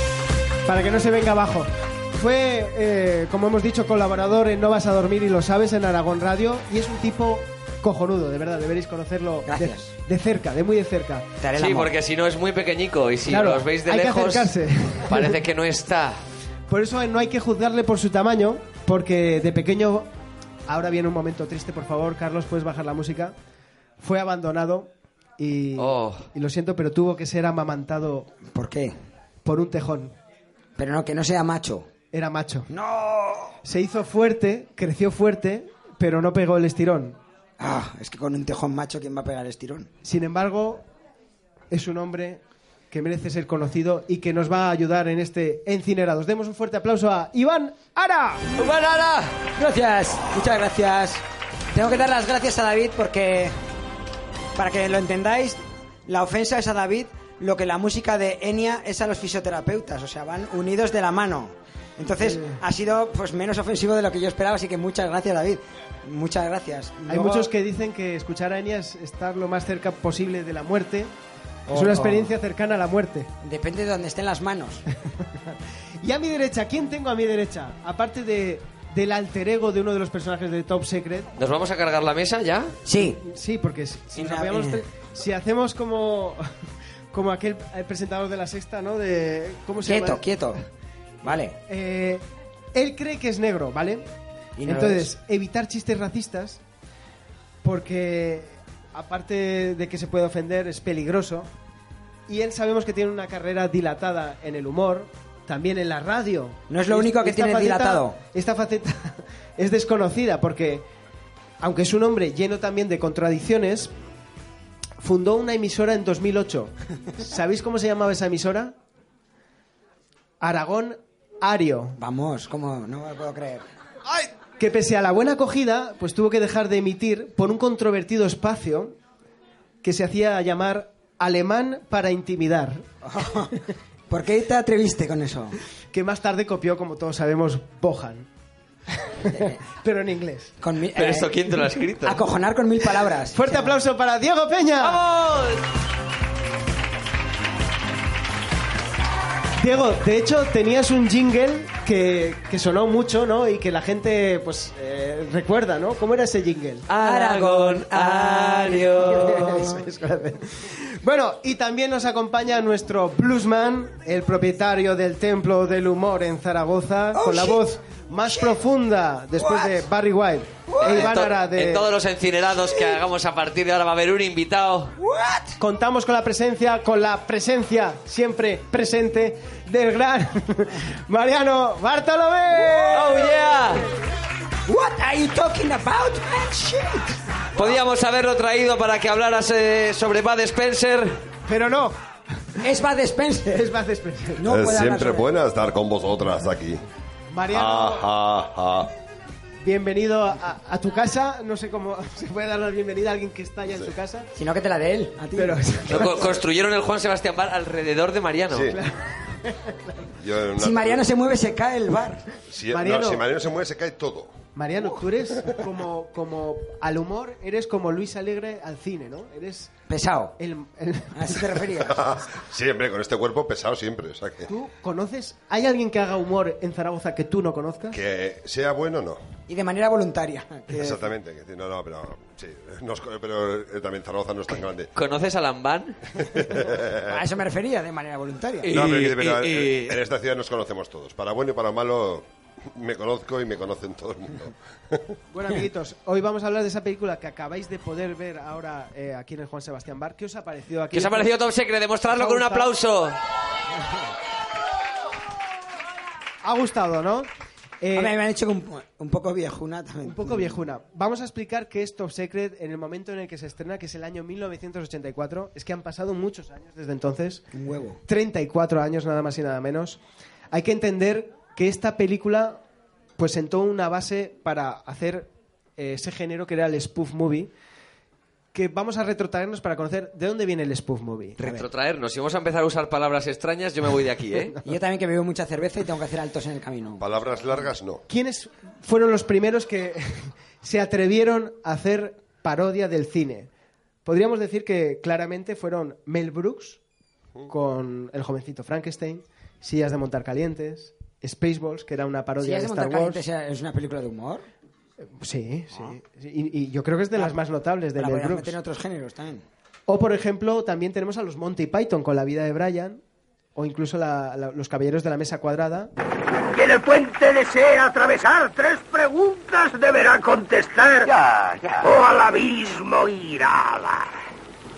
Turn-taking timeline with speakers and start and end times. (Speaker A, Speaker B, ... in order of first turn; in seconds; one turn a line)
Speaker A: 0.6-11.3
Speaker B: 9.4-9.9
Speaker B: 11.4-11.9
Speaker C: 11.6-14.5
Speaker A: 13.3-15.3
Speaker C: 15.1-16.2
Speaker A: 16.7-20.1
Speaker A: 20.7-23.3
Speaker A: 24.0-28.3
Speaker C: 25.8-26.2
Speaker B: 28.5-28.9
Speaker A: 29.4-30.1
Speaker B: 30.8-31.9
Speaker A: 32.1-32.7
Speaker B: 32.7-33.6
Speaker A: 33.6-37.2
Speaker B: 37.6-39.9
Speaker A: 40.0-40.8
Speaker A: 41.7-48.5
Speaker C: 48.6-49.4
Speaker B: 49.5-53.5
Speaker B: 54.5-67.5
Speaker A: 62.2-62.5
Speaker A: 67.1-71.1
Speaker B: 71.7-72.3
Speaker A: 71.7-73.3
Speaker B: 73.4-74.8
Speaker A: 76.0-81.3
Speaker C: 81.4-82.7
Speaker B: 82.8-83.2
Speaker A: 82.9-86.5
Speaker B: 84.1-84.8
Speaker A: 87.1-90.2
Speaker B: 89.8-90.6
Speaker B: 91.2-91.6
Speaker A: 91.7-94.1
Speaker B: 94.6-95.1
Speaker A: 94.6-96.6
Speaker A: 97.6-101.5
Speaker A: 102.3-110.8
Speaker B: 106.7-108.2
Speaker A: 111.6-113.9
Speaker A: 115.0-118.7
Speaker A: 120.4-122.0
Speaker B: 122.0-123.7
Speaker A: 124.6-128.9
Speaker A: 129.8-132.8
Speaker B: 133.0-133.6
Speaker B: 134.1-135.6
Speaker A: 135.9-138.3
Speaker A: 139.1-140.5
Speaker B: 140.6-143.7
Speaker C: 140.9-142.2
Speaker A: 143.3-145.0
Speaker C: 144.8-145.6
Speaker A: 149.6-156.8
Speaker C: 156.9-159.5
Speaker B: 157.0-159.7
Speaker A: 159.2-171.8
Speaker B: 167.1-167.6
Speaker B: 168.2-168.6
Speaker B: 169.4-169.8
Speaker B: 170.7-171.1
Speaker C: 170.8-174.9
Speaker B: 175.0-175.6
Speaker A: 175.6-183.3
Speaker B: 182.5-183.0
Speaker C: 182.9-183.8
Speaker B: 184.7-187.2
Speaker C: 187.6-191.2
Speaker A: 191.5-192.0
Speaker B: 192.6-193.6
Speaker A: 193.5-194.5
Speaker B: 194.4-195.3
Speaker D: 194.4-196.8
Speaker A: 197.3-198.1
Speaker D: 197.5-198.9
Speaker A: 199.6-204.3
Speaker D: 203.7-203.9
Speaker B: 204.3-205.9
Speaker A: 205.3-206.4
Speaker C: 205.9-208.7
Speaker D: 208.5-208.8
Speaker A: 208.7-210.0
Speaker D: 210.2-211.1
Speaker B: 210.6-212.2
Speaker D: 212.5-214.3
Speaker A: 212.7-213.2
Speaker A: 214.5-219.7
Speaker B: 219.9-220.3
Speaker A: 220.4-221.6
Speaker B: 221.1-222.0
Speaker D: 221.9-224.5
Speaker A: 224.5-228.0
Speaker D: 227.9-229.2
Speaker B: 229.5-231.0
Speaker D: 230.8-234.9
Speaker C: 234.9-236.0
Speaker D: 236.3-237.2
Speaker B: 237.0-238.7
Speaker C: 238.6-240.0
Speaker D: 238.7-245.0
Speaker A: 245.3-251.3
Speaker C: 250.9-253.2
Speaker A: 252.1-252.7
Speaker A: 256.4-257.3
Speaker A: 257.8-258.1
Speaker B: 257.9-260.6
Speaker A: 260.0-267.4
Speaker B: 267.5-268.0
Speaker A: 268.1-270.0
Speaker A: 270.5-272.6
Speaker A: 273.2-277.5
Speaker A: 278.5-281.4
Speaker B: 281.4-281.6
Speaker C: 281.4-284.5
Speaker B: 284.6-287.0
Speaker D: 287.0-288.0
Speaker A: 288.1-293.5
Speaker A: 294.0-296.8
Speaker A: 297.5-303.2
Speaker B: 302.4-304.4
Speaker A: 305.0-308.6
Speaker B: 308.0-309.4
Speaker A: 309.9-313.0
Speaker A: 313.6-315.9
Speaker E: 316.5-324.1